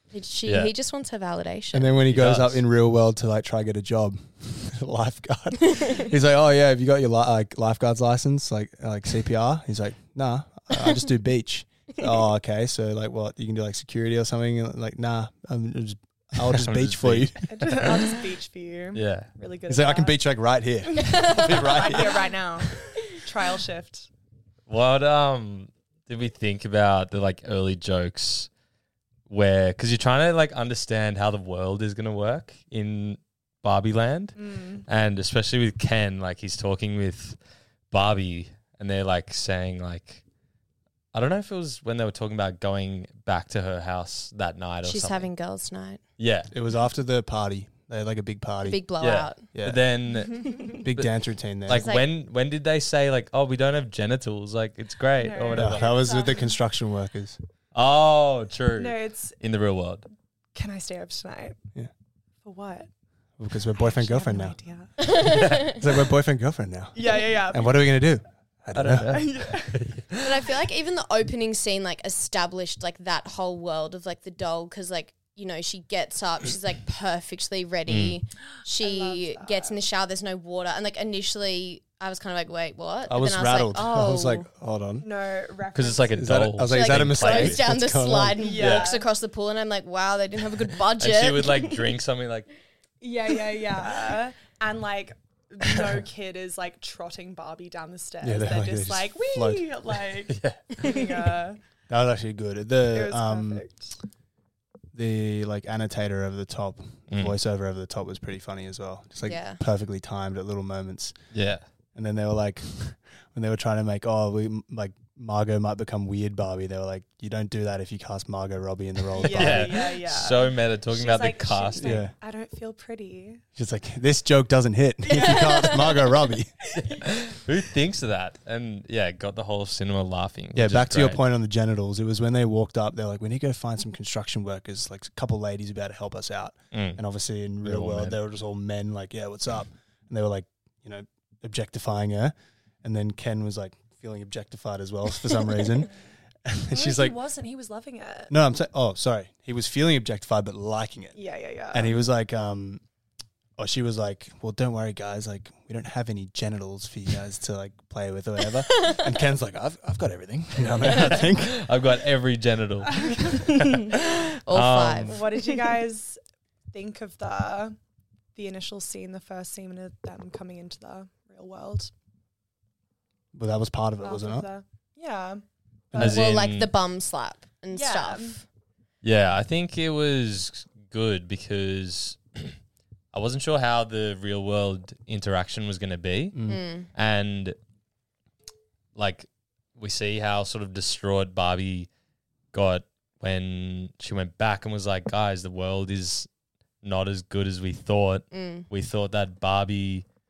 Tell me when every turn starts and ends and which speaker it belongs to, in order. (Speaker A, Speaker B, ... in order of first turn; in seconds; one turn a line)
Speaker A: 0.1-2.0
Speaker B: 0.5-0.7
Speaker C: 1.7-17.8
Speaker B: 2.1-2.6
Speaker B: 16.4-17.9
Speaker D: 17.5-20.2
Speaker B: 18.9-19.3
Speaker C: 19.7-22.3
Speaker D: 20.9-24.1
Speaker A: 21.1-21.7
Speaker B: 24.7-28.5
Speaker B: 29.3-34.3
Speaker D: 34.4-34.8
Speaker B: 34.9-37.4
Speaker B: 37.9-40.2
Speaker B: 41.1-45.3
Speaker A: 44.8-46.0
Speaker B: 46.2-46.5
Speaker C: 46.5-48.8
Speaker A: 48.6-49.5
Speaker B: 49.0-51.1
Speaker C: 49.5-49.8
Speaker A: 50.4-50.8
Speaker C: 50.7-51.9
Speaker B: 51.6-56.0
Speaker A: 51.7-52.0
Speaker D: 55.2-56.5
Speaker C: 55.5-57.4
Speaker B: 57.7-60.1
Speaker D: 58.8-59.4
Speaker D: 60.5-61.6
Speaker D: 62.4-62.9
Speaker C: 63.4-64.6
Speaker D: 63.8-64.9
Speaker A: 65.0-65.8
Speaker C: 65.2-69.2
Speaker D: 67.0-67.8
Speaker B: 68.7-70.2
Speaker D: 69.1-69.8
Speaker A: 70.2-84.5
Speaker B: 77.9-78.2
Speaker D: 78.8-79.8
Speaker C: 83.1-85.1
Speaker D: 83.7-84.2
Speaker D: 85.0-86.1
Speaker B: 85.7-87.6
Speaker C: 86.1-88.5
Speaker A: 86.7-91.9
Speaker D: 88.4-89.1
Speaker B: 88.6-88.9
Speaker B: 91.0-92.5
Speaker D: 93.0-101.6
Speaker C: 98.2-99.7
Speaker B: 100.3-100.9
Speaker C: 101.9-103.7
Speaker D: 102.9-103.9
Speaker C: 104.9-111.1
Speaker B: 107.1-107.4
Speaker A: 109.2-109.6
Speaker B: 111.3-111.6
Speaker C: 111.9-119.8
Speaker D: 119.2-123.4
Speaker B: 119.2-122.0
Speaker C: 121.8-122.1
Speaker C: 123.5-126.5
Speaker D: 125.1-125.9
Speaker A: 125.1-125.7
Speaker B: 126.8-131.2
Speaker C: 130.5-145.9
Speaker B: 136.7-137.0
Speaker B: 137.6-138.2
Speaker C: 146.4-147.2
Speaker D: 146.7-148.3
Speaker C: 148.3-151.2
Speaker D: 151.1-151.9
Speaker C: 151.7-152.8
Speaker C: 153.6-161.6
Speaker B: 160.8-165.2
Speaker D: 162.9-163.3
Speaker A: 164.4-165.3
Speaker D: 165.1-166.2
Speaker D: 166.7-167.8
Speaker D: 168.3-171.9
Speaker C: 173.3-174.5
Speaker D: 174.0-176.2
Speaker B: 175.9-176.7
Speaker A: 176.0-178.4
Speaker D: 177.7-178.4
Speaker B: 179.0-182.6
Speaker B: 183.1-186.4
Speaker C: 186.3-186.6
Speaker A: 186.4-186.9
Speaker B: 186.9-187.6
Speaker B: 188.9-191.9
Speaker B: 192.5-196.3
Speaker B: 196.8-200.0
Speaker A: 198.3-198.7